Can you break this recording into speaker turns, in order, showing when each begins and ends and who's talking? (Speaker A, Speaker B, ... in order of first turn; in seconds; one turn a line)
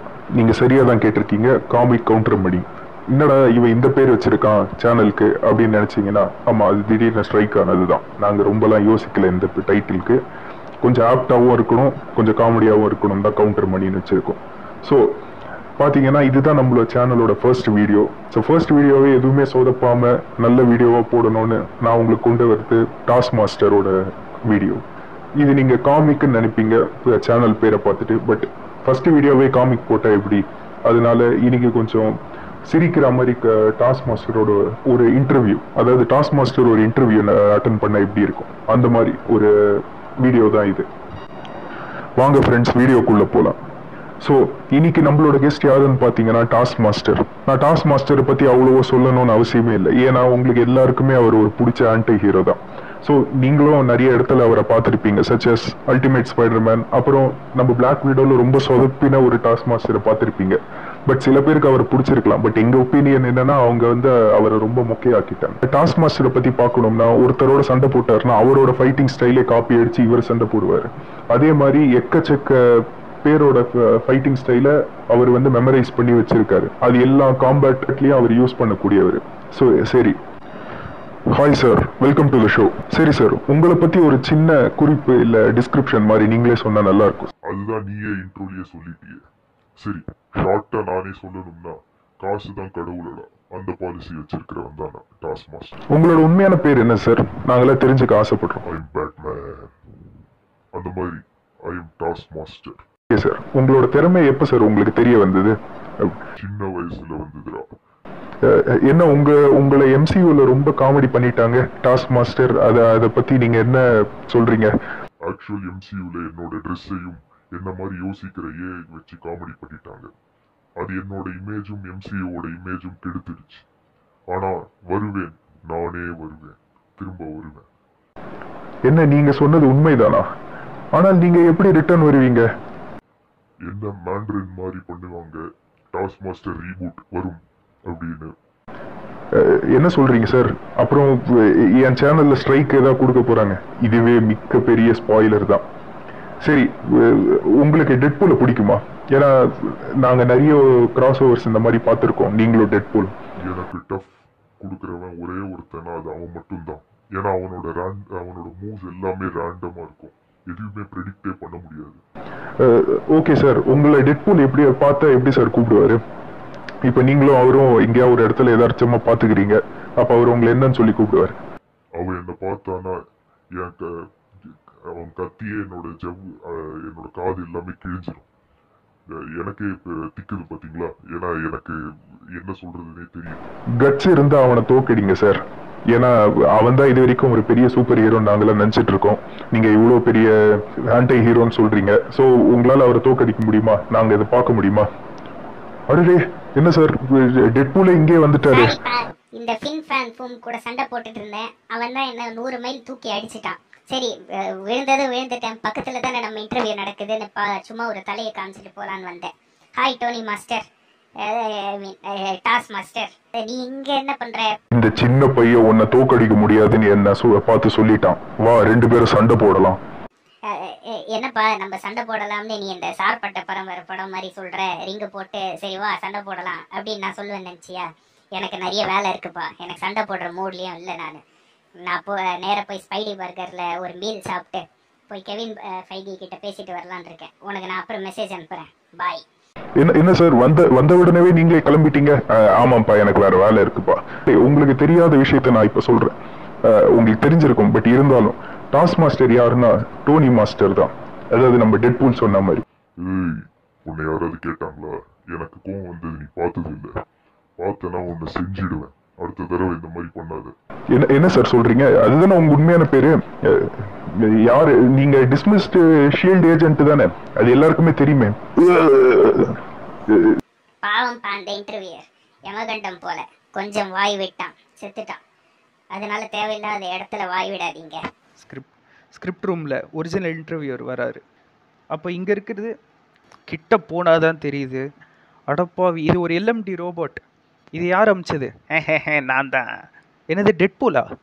Speaker A: 0.3-10.2
Speaker A: 10.8-15.2
Speaker A: 15.8-24.8
Speaker A: 25.4-40.9
Speaker A: 42.2-43.6
Speaker A: 44.2-80.2
Speaker A: 81.3-87.3
Speaker B: 87.4-89.2
Speaker B: 89.8-95.7
Speaker A: 95.9-98.6
Speaker B: 98.7-99.7
Speaker B: 100.7-102.8
Speaker A: 103.1-106.2
Speaker B: 106.4-107.7
Speaker A: 108.5-114.7
Speaker B: 115.2-120.1
Speaker B: 120.8-123.7
Speaker B: 124.3-127.7
Speaker A: 128.9-130.3
Speaker A: 130.9-132.5
Speaker B: 133.6-138.3
Speaker A: 139.3-145.6
Speaker A: 146.4-153.1
Speaker B: 153.4-162.0
Speaker A: 162.6-166.0
Speaker A: 166.8-171.3
Speaker B: 171.9-173.0
Speaker B: 173.6-178.3
Speaker B: 179.1-181.8
Speaker B: 182.3-183.4
Speaker A: 183.8-194.9
Speaker A: 195.9-198.8
Speaker C: 198.5-210.7
Speaker C: 211.2-214.6
Speaker A: 214.7-219.8
Speaker C: 220.5-231.2
Speaker C: 231.8-239.2
Speaker A: 239.8-252.6
Speaker B: 253.0-256.9
Speaker B: 257.6-260.5
Speaker A: 260.9-270.4
Speaker C: 270.8-275.2
Speaker C: 275.9-278.0
Speaker D: 278.4-281.2
Speaker D: 281.9-282.7
Speaker D: 283.5-284.8
Speaker D: 285.5-287.2
Speaker D: 287.7-289.6
Speaker D: 290.3-291.0